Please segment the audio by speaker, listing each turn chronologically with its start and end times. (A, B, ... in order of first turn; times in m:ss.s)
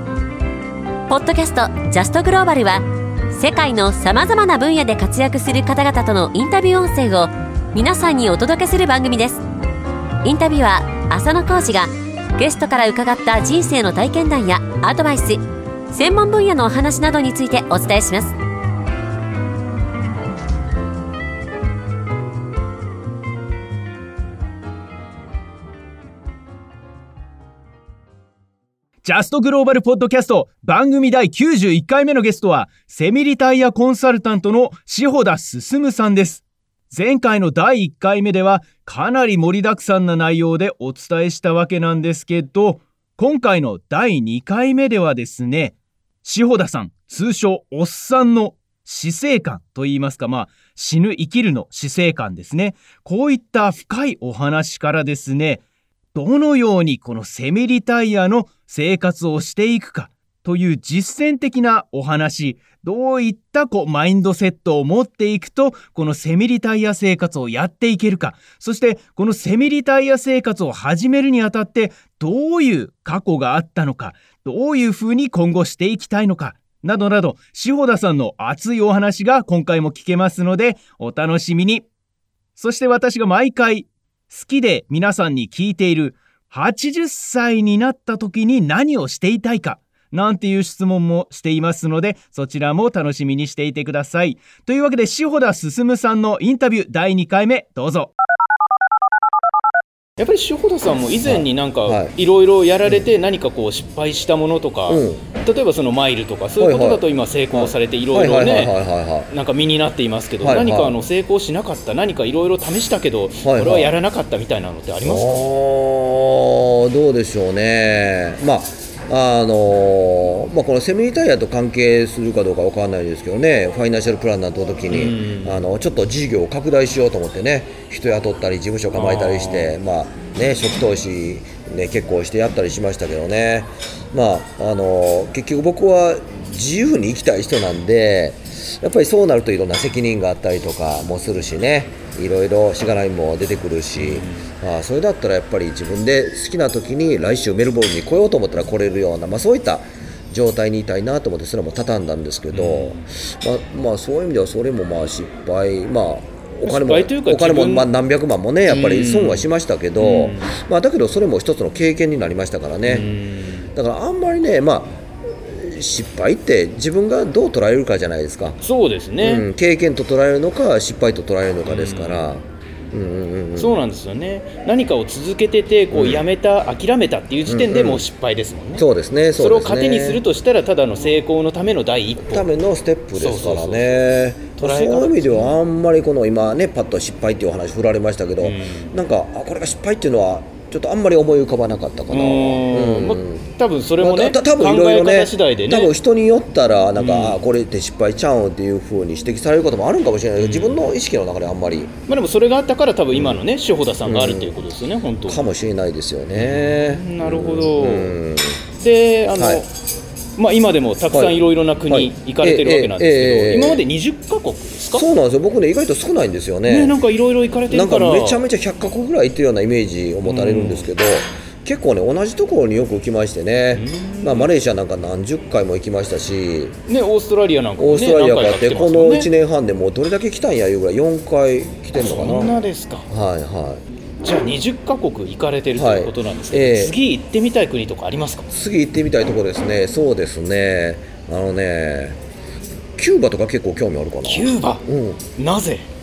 0:01.1-0:09.4 A
0:10.2-0:18.3 A
0:29.0-0:55.6 B
0:56.1-1:21.9 B
1:22.6-1:38.1 B
1:40.2-1:48.7 B
1:41.2-1:42.2 C
1:44.9-1:45.3 C
1:46.6-1:49.3 C
1:49.3-1:55.3 B
1:50.4-1:50.9 C
1:53.4-1:53.9 C
1:55.0-2:43.1 C
2:04.9-2:05.6 B
2:09.0-2:09.7 B
2:24.0-2:24.5 B
2:32.5-2:33.0 B
2:36.7-2:37.9 B
2:38.7-2:39.5 B
2:40.0-2:40.5 B
2:42.9-2:43.7 B
2:43.7-2:48.6 C
2:48.6-2:49.4 B
2:49.2-2:53.8 C
2:51.7-2:52.2 B
2:53.6-2:58.8 B
2:55.9-2:56.3 C
2:57.5-2:58.0 C
2:58.8-3:00.2 C
2:59.4-3:02.5 B
3:02.2-3:13.5 C
3:03.2-3:04.0 B
3:04.6-3:05.6 B
3:08.4-3:08.9 B
3:12.1-3:15.9 B
3:14.0-3:21.9 C
3:17.0-3:17.4 B
3:20.4-3:20.8 B
3:22.1-3:25.4 B
3:23.1-3:23.4 C
3:24.1-3:24.6 C
3:25.3-3:28.6 C
3:26.4-3:28.1 B
3:28.8-3:29.7 B
3:29.3-3:29.6 C
3:30.4-3:35.0 B
3:31.9-3:33.8 C
3:34.9-3:37.0 C
3:36.7-3:38.4 B
3:37.7-3:46.8 C
3:40.3-3:40.9 B
3:43.8-3:44.5 B
3:46.9-3:49.3 B
3:47.8-3:52.6 C
3:52.0-3:53.1 B
3:53.1-3:53.8 C
3:54.2-3:58.5 B
3:55.8-3:57.0 C
3:58.5-4:02.2 C
4:03.0-4:05.2 C
4:04.3-4:04.8 B
4:05.4-4:05.9 B